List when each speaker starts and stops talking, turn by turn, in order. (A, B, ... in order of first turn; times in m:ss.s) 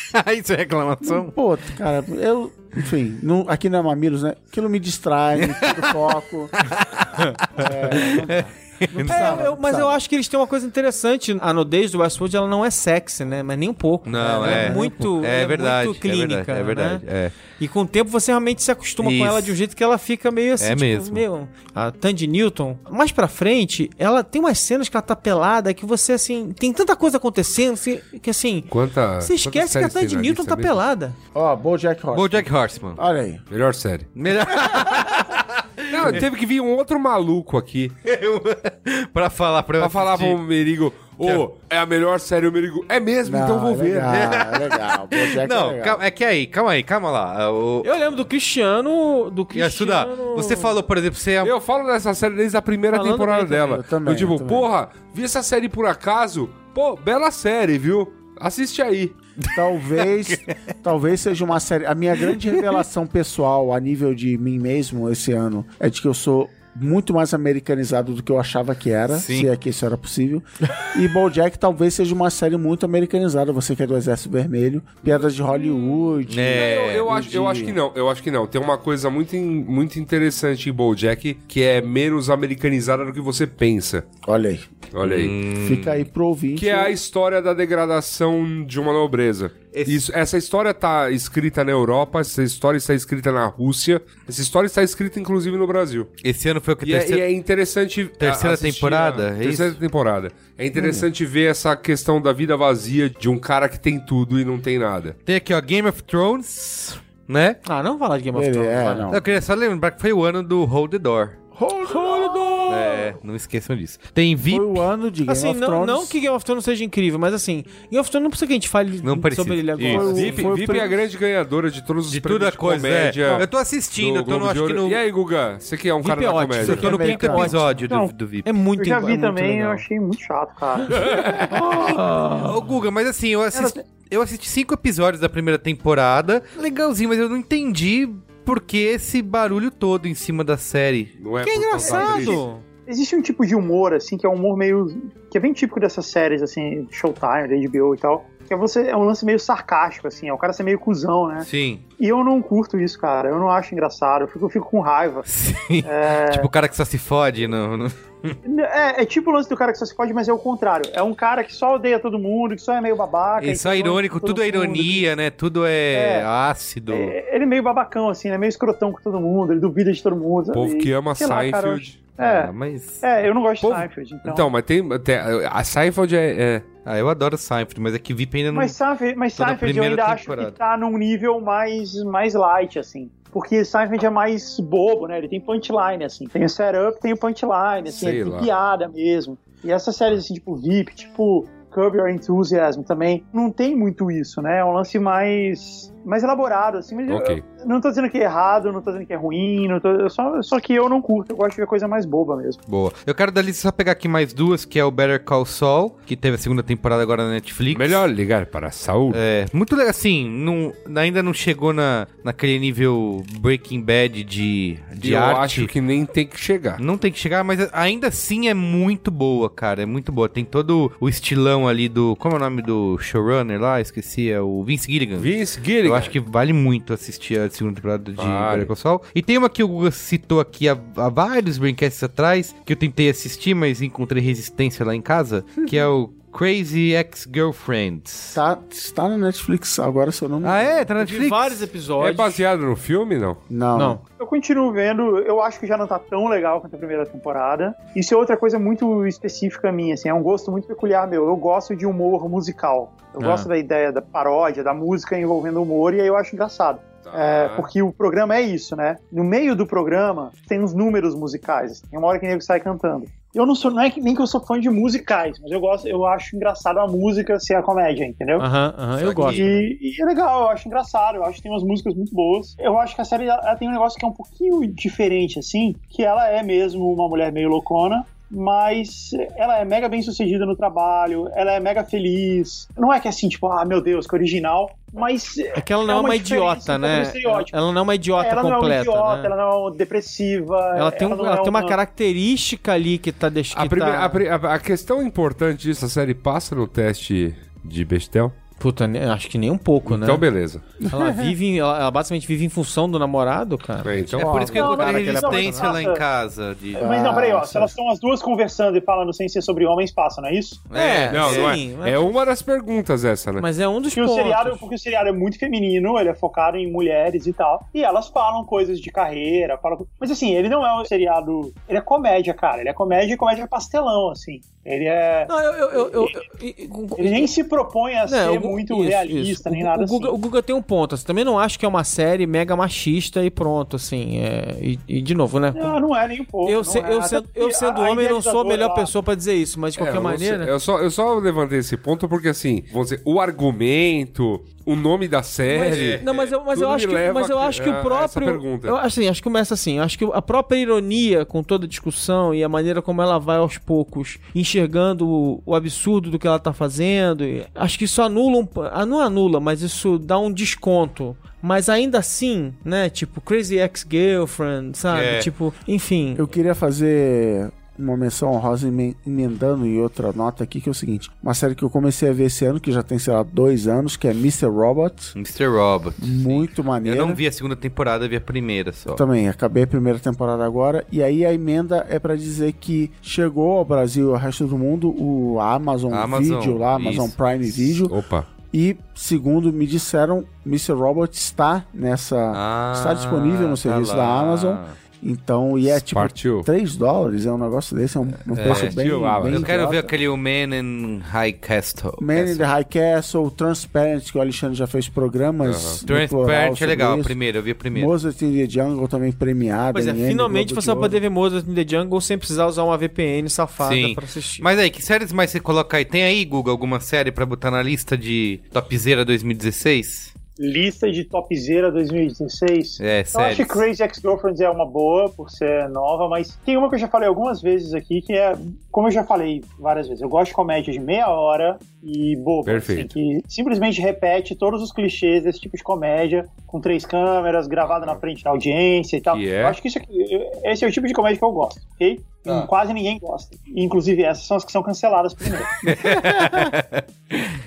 0:00.1-0:01.3 A
0:01.0-0:06.5 B
0:05.4-0:09.5 A
0:07.5-0:10.0 B
0:09.1-0:31.2 C
0:14.0-0:17.4 A
0:14.4-0:14.9 B
0:19.0-0:19.6 A
0:20.6-0:21.3 A
0:28.7-0:30.8 D
0:31.3-0:33.4 B
0:32.1-0:33.0 A
0:33.5-0:34.1 D
0:34.2-0:36.2 A
0:34.6-0:35.2 B
0:35.9-0:38.0 D
0:38.0-0:40.4 A
0:39.8-0:44.3 D
0:41.2-0:41.5 A
0:43.2-0:46.0 B
0:44.1-0:48.0 A
0:47.8-0:50.8 C
0:49.5-0:51.5 A
0:51.4-0:59.2 D
0:52.9-0:53.7 C
0:53.5-0:54.7 B
0:59.4-1:00.5 A
0:59.5-1:17.8 B
1:09.1-1:09.5 A
1:16.3-1:16.8 A
1:16.5-1:24.1 D
1:24.2-1:24.7 B
1:24.9-1:25.4 D
1:25.0-1:26.1 A
1:25.6-1:27.0 B
1:26.6-1:36.1 D
1:29.7-1:30.1 A
1:36.2-1:37.2 A
1:36.8-1:45.2 D
1:38.2-1:39.8 A
1:40.7-1:41.1 B
1:45.3-1:47.6 A
1:47.6-1:49.1 C
1:48.3-1:49.2 B
1:49.1-1:51.4 A
1:51.5-1:53.2 B
1:51.9-1:52.6 C
1:52.7-1:54.9 A
1:54.5-1:56.2 B
1:55.3-2:00.6 C
1:59.0-2:00.2 A
1:59.8-2:07.0 D
1:59.8-2:01.0 B
2:02.1-2:05.0 A
2:06.0-2:07.8 C
2:06.6-2:07.5 B
2:06.6-2:08.5 A
2:07.9-2:08.2 E
2:08.4-2:09.8 C
2:08.8-2:11.0 E
2:10.9-2:11.5 D
2:11.4-2:12.5 B
2:12.4-2:21.2 A
2:21.2-2:22.4 D
2:21.4-2:22.7 C
2:22.1-2:31.5 E
2:31.4-2:31.8 A
2:32.0-2:35.3 E
2:35.3-2:38.4 A
2:35.8-2:36.5 E
2:38.4-2:45.1 E
2:43.4-2:47.2 A
2:45.9-2:46.3 E
2:46.9-2:54.5 E
2:50.5-2:52.0 D
2:52.2-2:53.0 A
2:53.6-2:56.7 D
2:56.8-2:58.8 A
2:58.5-3:22.6 E
2:59.4-3:00.6 A
3:07.9-3:08.5 D
3:17.1-3:17.4 D
3:22.7-3:28.1 A
3:27.7-3:29.2 D
3:29.1-3:35.7 A
3:35.0-3:36.8 D
3:36.8-3:58.4 A
3:45.2-3:46.1 D
3:48.2-3:48.7 D
3:58.3-4:00.9 B
4:00.4-4:01.7 A
4:01.0-4:02.4 C
4:02.0-4:03.4 D
4:03.5-4:04.0 B
4:03.8-4:04.0 C
4:04.2-4:28.5 E
4:13.2-4:13.5 C
4:17.1-4:17.7 D
4:28.4-4:29.7 C
4:29.0-4:29.5 A
4:29.2-4:47.5 E
4:45.6-4:49.3 C
4:48.2-4:51.8 E
4:50.7-4:54.2 C
4:53.5-4:58.4 D
4:58.6-5:00.3 C
4:59.9-5:00.6 D
5:00.8-5:01.3 B
5:00.9-5:05.8 C
5:03.8-5:04.3 D
5:04.2-5:06.9 A
5:04.5-5:06.0 E
5:06.8-5:07.7 B
5:06.8-5:10.6 E
5:10.7-5:11.6 A
5:10.7-5:12.2 C
5:11.1-5:13.5 D
5:13.4-5:14.6 C
5:13.9-5:26.2 E
5:25.3-5:27.3 C
5:27.0-5:30.2 E
5:28.1-5:35.8 C
5:35.5-5:38.9 E
5:36.4-5:40.5 C
5:39.8-5:48.8 D
5:45.4-6:06.3 C
5:45.6-5:46.3 A
6:04.9-6:05.3 A
6:06.2-6:15.1 B
6:15.2-6:19.0 A
6:16.0-6:17.2 B
6:18.9-6:28.0 B
6:25.9-6:27.2 A
6:27.9-6:28.3 D
6:28.5-6:39.9 B
6:32.3-6:34.8 A
6:35.7-6:36.5 D
6:38.3-6:42.5 A
6:38.4-6:39.5 D
6:42.0-6:47.2 B
6:45.4-6:45.8 D
6:45.9-6:47.9 A
6:47.7-6:51.0 B
6:49.7-6:54.5 C
6:53.6-7:00.1 A
7:00.4-7:25.6 E
7:02.8-7:03.6 A
7:12.5-7:12.9 D
7:17.7-7:18.0 D
7:19.1-7:19.6 D
7:25.6-7:27.4 A
7:25.7-7:26.2 B